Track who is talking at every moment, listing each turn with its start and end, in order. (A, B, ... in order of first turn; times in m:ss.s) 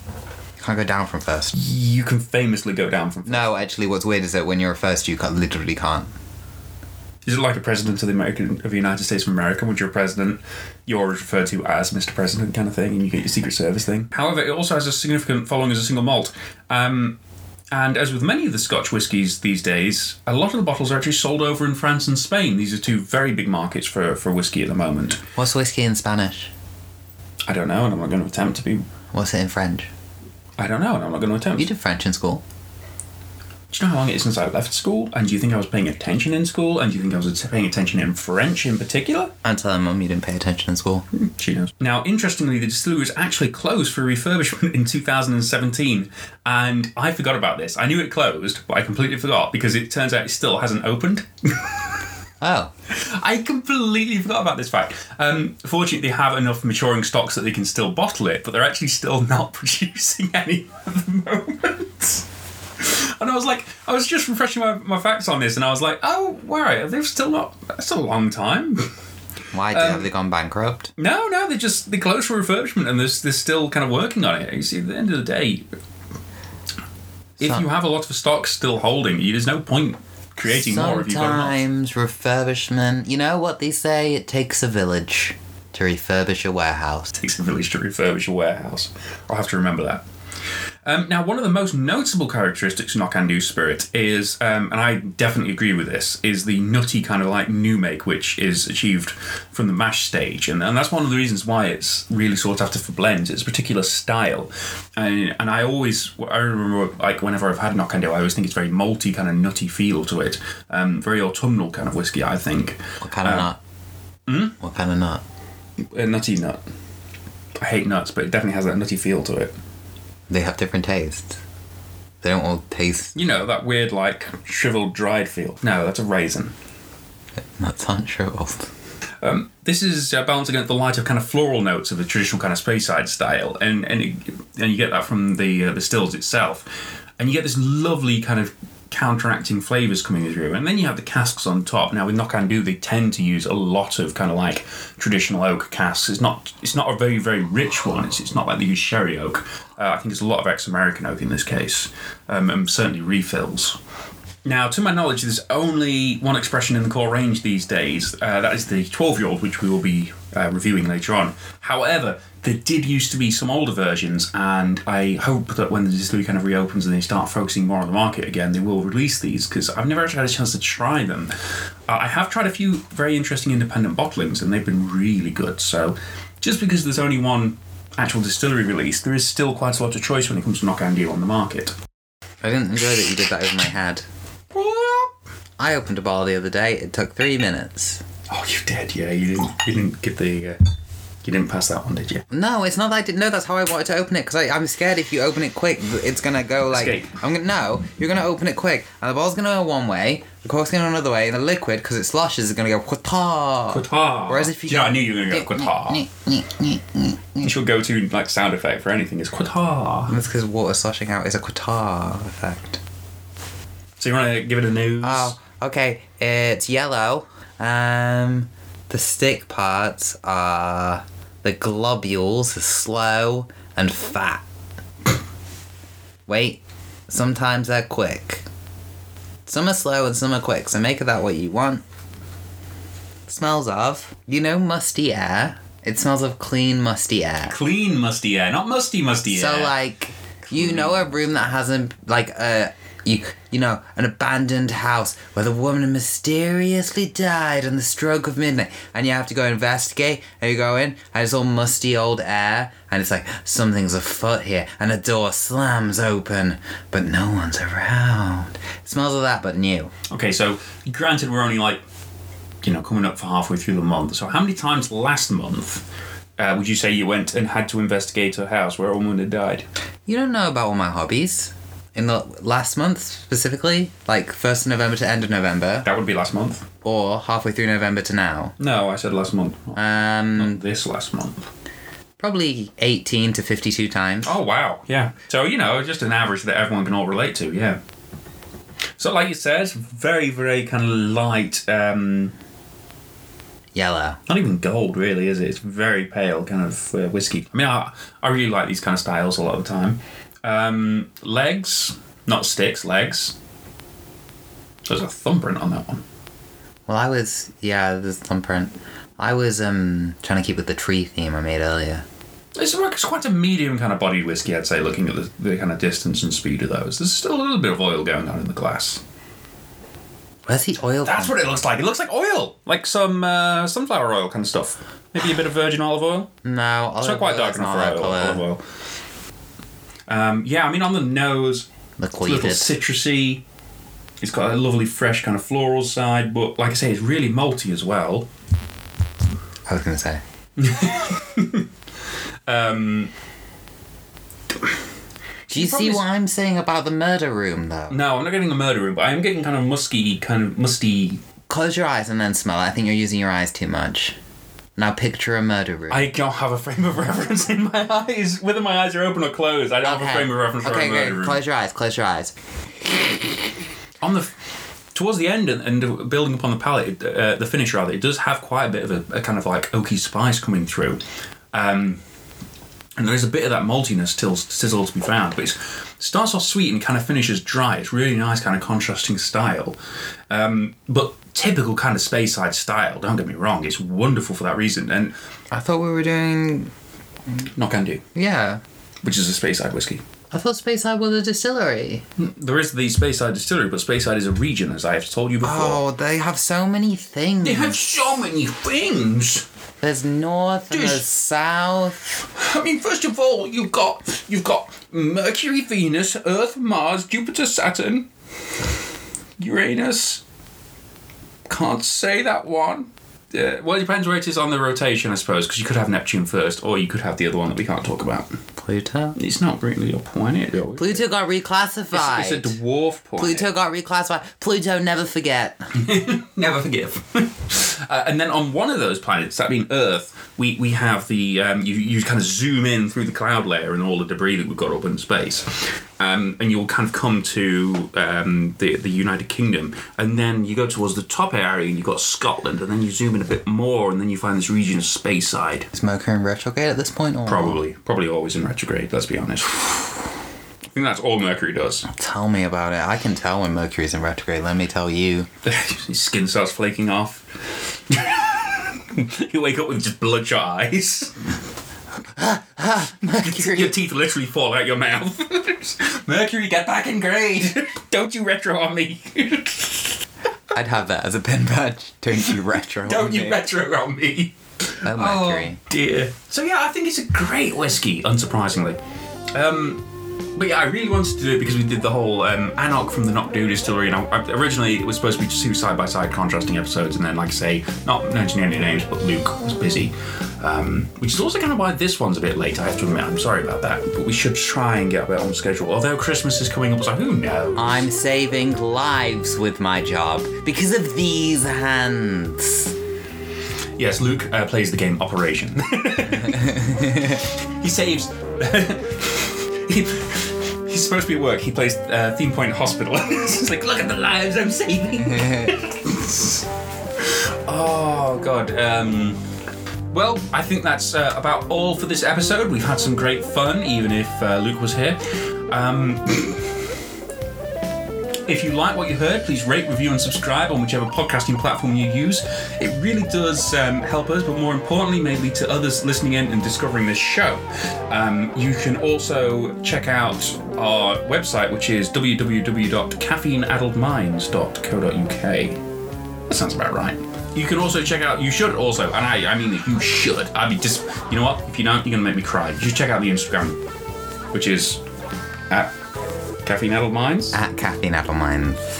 0:00.6-0:01.6 A
0:01.5-0:03.6 B
0:03.2-0:06.1 A
0:07.2-0:17.2 B
0:17.7-0:25.2 B
0:25.4-0:26.5 A
0:27.5-0:28.8 B
0:29.1-0:29.9 A
0:30.6-0:31.7 B
0:31.6-0:32.4 A
0:33.7-0:39.3 B
0:39.4-0:41.1 A
0:41.1-0:51.9 B
0:52.4-0:52.7 A
0:52.9-1:02.2 B
1:02.8-1:08.9 B
1:09.5-1:10.9 A
1:09.7-1:10.1 B
1:11.0-1:15.6 B
1:17.4-1:21.6 B
1:20.5-1:27.1 A
1:27.2-1:30.0 B
1:30.8-1:53.5 B
1:53.0-1:53.6 A
1:54.3-1:54.5 B
1:54.6-1:55.2 A
1:55.9-1:56.6 B
1:57.6-1:59.5 B
2:00.3-2:01.4 A
2:02.2-2:03.2 A
2:03.1-2:06.5 B
2:07.6-2:08.7 A
2:09.2-2:16.7 B
2:17.2-2:33.8 B
2:34.4-2:51.3 B
2:51.9-3:01.7 B
3:02.4-3:04.0 A
3:04.5-3:05.1 B
3:05.6-3:08.0 A
3:08.3-3:10.6 B
3:11.2-3:12.2 B
3:12.3-3:27.5 A
3:16.7-3:17.2 B
3:23.7-3:26.0 B
3:27.4-3:30.2 B
3:30.1-3:32.8 A
3:34.0-3:35.3 B
3:35.0-3:44.4 A
3:46.3-3:48.4 A
3:49.4-3:51.8 A
3:53.3-3:57.6 A
3:57.4-3:59.7 B
3:59.3-4:19.9 A
4:00.5-4:01.5 B
4:20.1-4:21.8 B
4:22.6-4:25.8 B
4:26.4-4:29.6 B
4:30.1-4:35.9 A
4:35.8-4:36.7 B
4:36.8-4:38.5 A
4:38.6-4:39.8 B
4:39.7-4:40.6 A
4:40.3-4:41.5 B
4:42.2-4:44.4 A
4:44.2-4:47.8 B
4:49.0-4:52.3 B
4:53.7-4:54.2 A
4:54.3-5:03.3 B
5:04.8-5:06.0 B
5:06.9-5:12.0 A
5:12.6-5:19.0 B
5:20.5-5:21.4 A
5:21.0-5:26.3 B
5:26.4-5:28.4 A
5:27.0-5:28.6 B
5:30.1-5:31.7 B
5:32.0-5:32.7 A
5:32.2-5:33.4 B
5:34.2-5:38.2 B
5:39.7-5:40.2 A
5:40.6-5:41.7 B
5:42.5-5:43.1 B
5:45.5-5:46.0 B
5:45.5-5:48.0 A
5:47.9-5:51.2 B
5:51.5-5:54.2 A
5:54.8-5:56.1 A
5:55.9-6:01.4 B
5:59.8-6:02.3 A
6:04.0-6:04.3 B
6:04.9-6:11.0 B
6:11.5-6:12.0 B
6:13.0-6:19.8 B
6:20.3-6:25.1 B
6:25.5-6:26.7 A
6:27.5-6:28.0 B
6:28.1-6:28.6 A
6:29.0-6:30.0 B
6:30.3-6:32.0 A
6:32.2-6:35.8 B
6:35.4-6:38.0 A
6:37.4-6:39.4 B
6:39.8-6:42.2 A
6:40.7-6:41.0 B
6:42.2-6:48.1 B
6:49.4-6:50.2 B
6:51.5-6:58.4 B
6:58.6-6:59.2 A
6:59.2-7:01.0 B
7:00.8-7:02.6 A
7:01.9-7:03.5 B
7:03.2-7:05.7 A
7:05.7-7:25.7 B
7:25.7-7:27.6 A
7:27.2-7:30.1 B
7:30.7-7:31.8 B
7:31.9-7:35.3 A
7:35.4-7:41.3 B
7:42.2-7:43.7 A
7:43.2-7:50.0 B
7:50.5-7:53.5 A
7:52.8-7:58.8 B
7:54.8-7:55.6 A
7:59.3-7:59.8 B
8:00.3-8:17.8 B
8:17.6-8:22.7 A
8:23.8-8:36.4 B
8:26.3-8:27.0 A
8:35.1-8:35.5 A
8:37.0-8:39.2 B
8:39.9-8:46.6 B
8:48.3-9:05.6 B
9:06.3-9:13.6 B
9:14.3-9:14.8 B
9:16.4-9:17.4 B
9:17.3-9:18.6 A